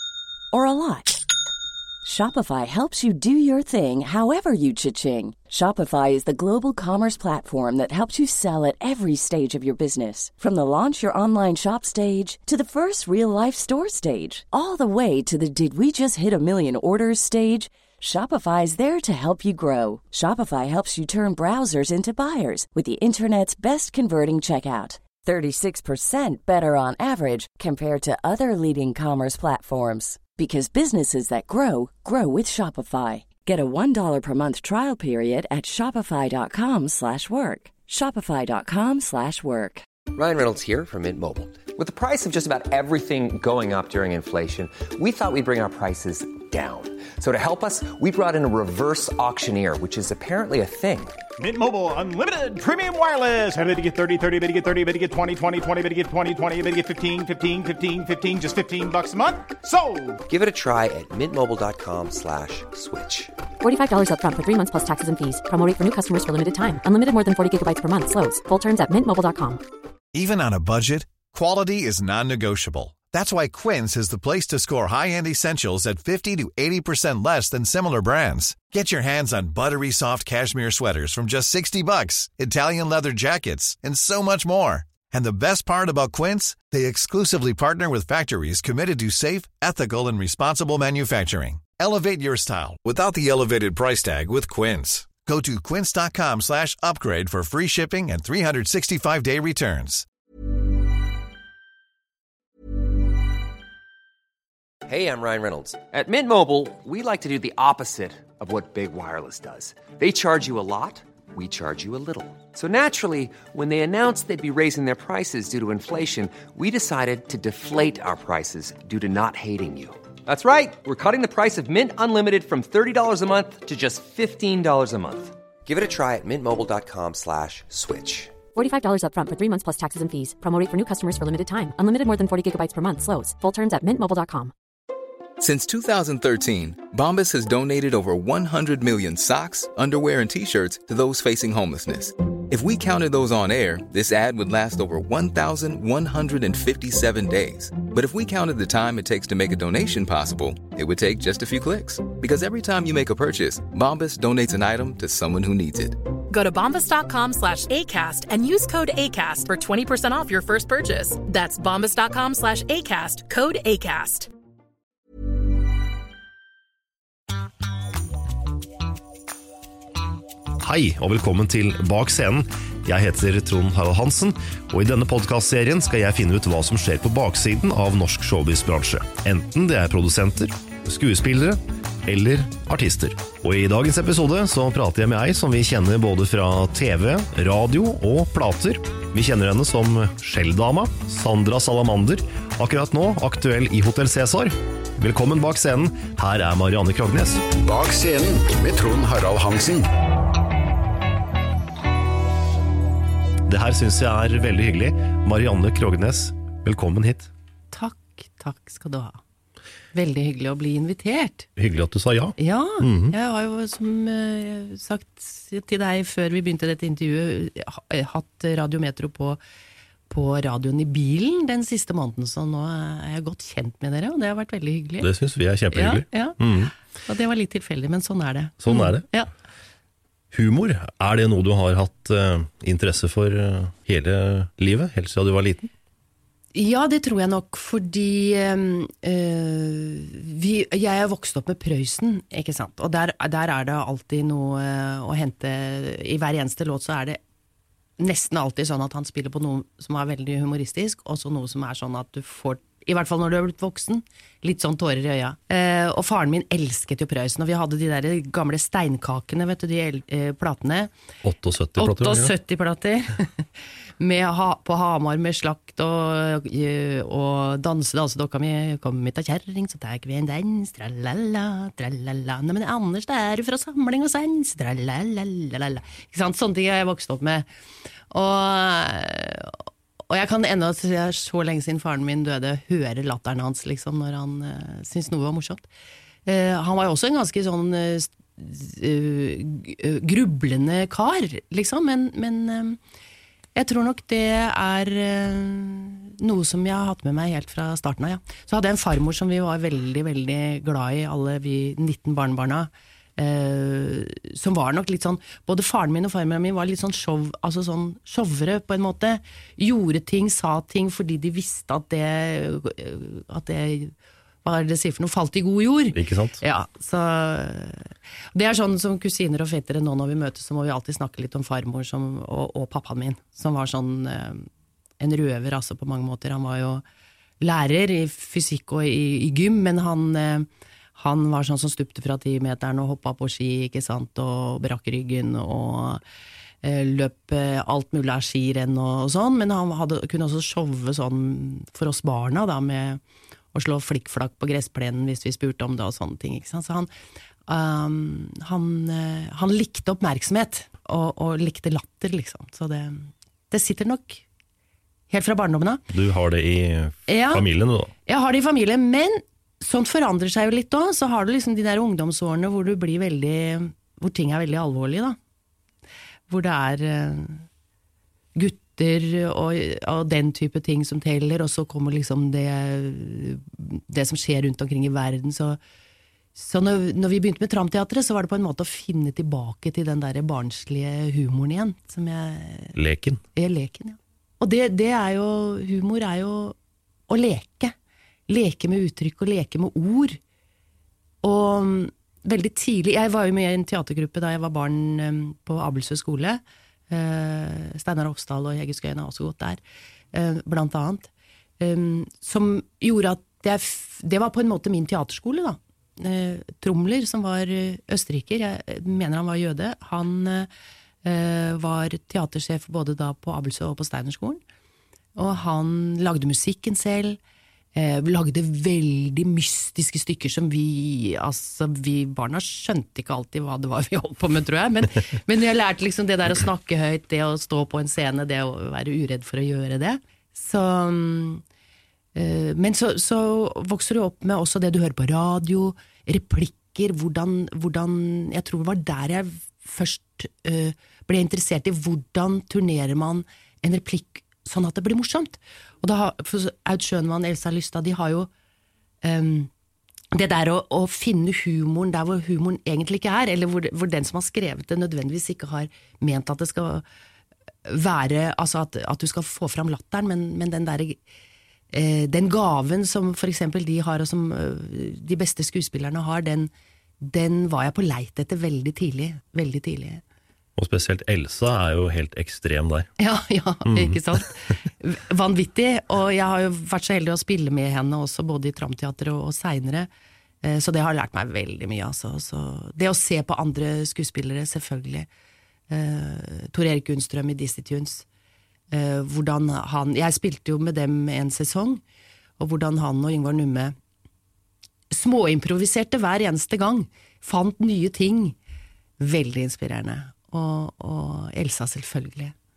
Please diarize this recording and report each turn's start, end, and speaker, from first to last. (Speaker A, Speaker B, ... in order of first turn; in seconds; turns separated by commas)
Speaker A: 0.5-1.2, Speaker A: 2.0-39.8, Speaker B: 40.1-51.2, Speaker C: 51.4-60.2, Speaker B: 60.2-63.3, Speaker D: 63.6-69.6, Speaker E: 70.1-100.1, Speaker B: 104.9-128.3, Speaker D: 128.5-134.5, Speaker F: 135.4-156.0, Speaker G: 156.3-164.3, Speaker H: 170.6-197.4, Speaker I: 197.6-199.9, Speaker H: 203.5-207.3, Speaker J: 207.7-209.2, Speaker J: 209.9-211.5, Speaker H: 211.6-213.1, Speaker J: 212.4-219.4, Speaker J: 220.1-225.1, Speaker H: 225.0-226.7, Speaker J: 225.7-226.5, Speaker J: 227.0-229.3, Speaker H: 228.6-229.1, Speaker H: 230.3-235.7, Speaker J: 236.5-247.2, Speaker J: 248.0-260.9, Speaker H: 261.2-262.3, Speaker J: 261.8-263.5, Speaker J: 264.0-277.5, Speaker J: 278.1-279.6, Speaker J: 280.1-285.6, Speaker J: 286.2-292.8, Speaker J: 293.6-324.5, Speaker H: 315.9-316.4, Speaker J: 325.0-326.8, Speaker J: 327.4-336.0, Speaker J: 336.6-343.0, Speaker J: 343.5-346.9, Speaker J: 347.5-354.2, Speaker J: 355.1-355.8, Speaker H: 355.9-357.9, Speaker J: 357.1-357.5, Speaker J: 358.1-365.2, Speaker J: 366.3-367.4, Speaker J: 368.3-375.6, Speaker J: 376.3-382.8, Speaker H: 382.8-383.2, Speaker J: 383.3-386.6, Speaker J: 387.1-387.8, Speaker J: 388.3-390.2, Speaker J: 391.2-399.6, Speaker J: 400.1-401.1, Speaker J: 401.6-410.5, Speaker J: 411.0-414.4, Speaker J: 415.1-417.2, Speaker J: 417.7-431.4, Speaker J: 432.1-448.3, Speaker J: 449.0-449.5, Speaker J: 450.1-456.8, Speaker J: 457.6-461.0, Speaker J: 461.7-470.0, Speaker H: 470.6-472.9, Speaker J: 473.0-479.9, Speaker H: 473.6-474.0, Speaker J: 480.4-485.1, Speaker J: 485.7-488.1, Speaker J: 488.7-491.8, Speaker J: 492.4-493.8, Speaker J: 494.9-498.3, Speaker J: 499.0-502.3